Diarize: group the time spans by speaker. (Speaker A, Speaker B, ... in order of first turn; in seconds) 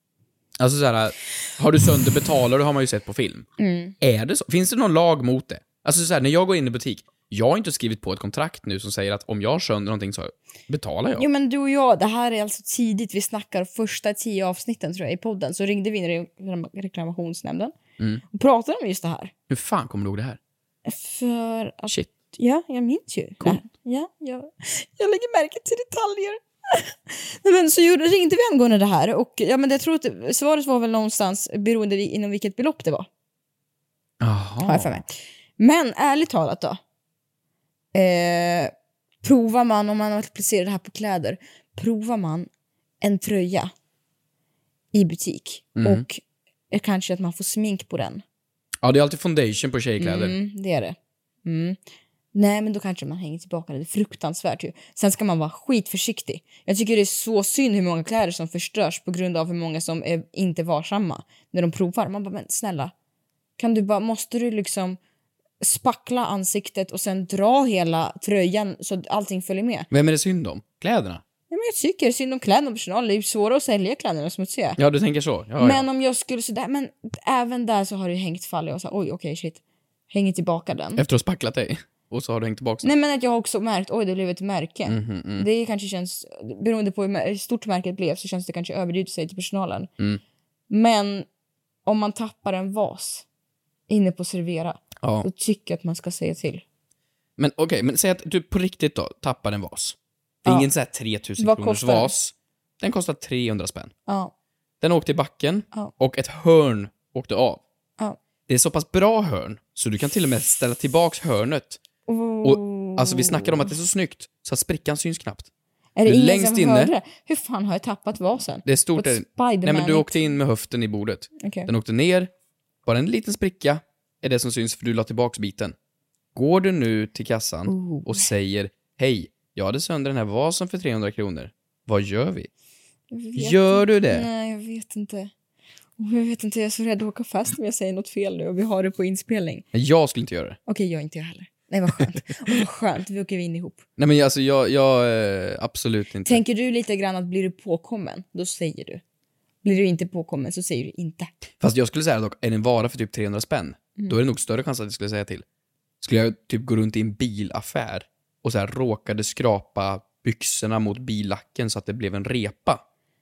Speaker A: 0.6-3.5, 4.0-11.3, 19.5-20.4, 34.2-35.0, 45.8-46.0, 48.8-50.4, 69.9-71.2, 74.8-75.8, 81.0-82.9, 84.9-85.5, 95.0-95.3, 97.4-103.9, 104.8-107.6, 108.5-111.8, 112.4-115.5, 116.0-116.9, 118.7-122.3, 122.9-125.8, 126.3-132.5, 133.4-134.3, 139.7-140.6, 144.0-146.4, 151.6-155.4, 156.0-162.8
Speaker B: 3.6-3.9, 11.2-17.8, 18.3-19.3, 20.9-33.1, 34.6-36.8, 37.9-42.5, 43.0-43.7, 44.9-48.2, 50.0-51.8, 52.3-62.9, 63.6-65.0, 65.6-69.9, 71.5-74.8, 75.6-79.6, 80.1-81.0, 82.8-89.9, 90.7-91.3, 91.9-93.2, 93.9-96.6, 101.4-102.1, 104.1-104.3, 112.1-113.7, 116.0-120.2, 121.4-121.7, 127.7-128.3, 133.1-135.3, 136.0-139.6, 140.7-143.8, 146.3-149.0, 149.6-151.3